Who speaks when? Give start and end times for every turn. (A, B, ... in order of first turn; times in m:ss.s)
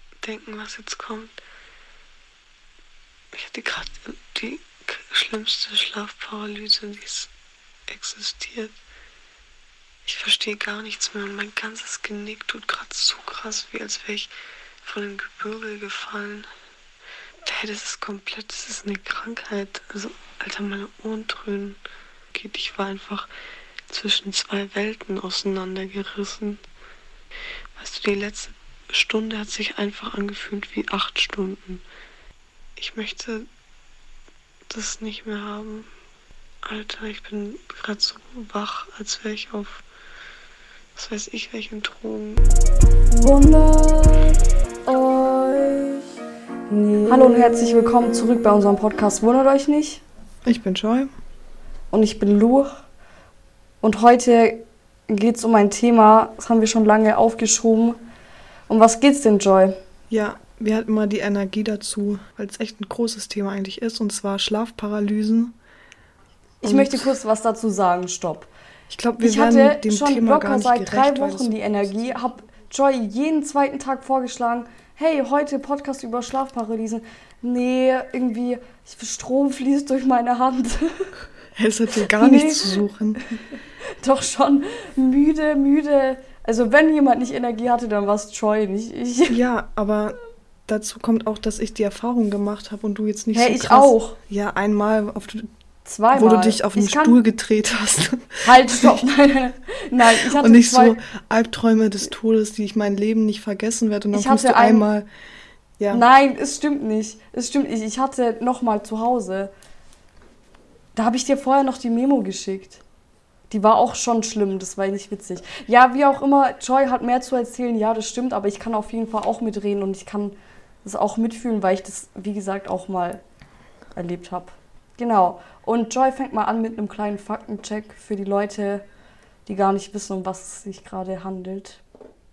0:00.2-0:01.3 A
0:03.3-0:07.3 A
0:07.9-0:08.8 A
0:10.1-0:14.3 A
0:14.8-0:16.5 A
0:17.4-0:21.8 A
0:22.3-0:23.3 A
0:23.9-0:26.6 A
0:27.8-0:31.8 A
0:32.8-0:33.5 A
0:34.7-0:35.9 A
0:36.6-0:39.8 A
0:41.0-0:42.4 A
0:43.2-0:45.7 B
0:46.7-0:47.0 A
0:47.1-0:50.0 B
0:50.5-0:51.1 A
0:51.9-0:52.8 B
0:53.8-0:58.0 B
0:58.7-0:59.8 B
1:00.1-1:05.6 A
1:06.6-1:07.1 A
1:06.6-1:08.5 B
1:08.9-1:11.8 A
1:09.2-1:21.1 B
1:21.6-1:23.2 A
1:22.2-1:22.8 B
1:24.0-1:29.4 B
1:29.3-1:30.2 A
1:30.7-1:35.5 A
1:33.3-1:34.2 B
1:35.8-1:37.2 B
1:36.1-1:39.0 A
1:38.4-1:41.0 B
1:40.1-1:45.1 A
1:44.1-1:44.9 B
1:45.9-1:49.5 B
1:51.0-1:52.8 B
1:53.5-2:03.2 B
2:04.0-2:08.8 B
2:09.5-2:11.8 B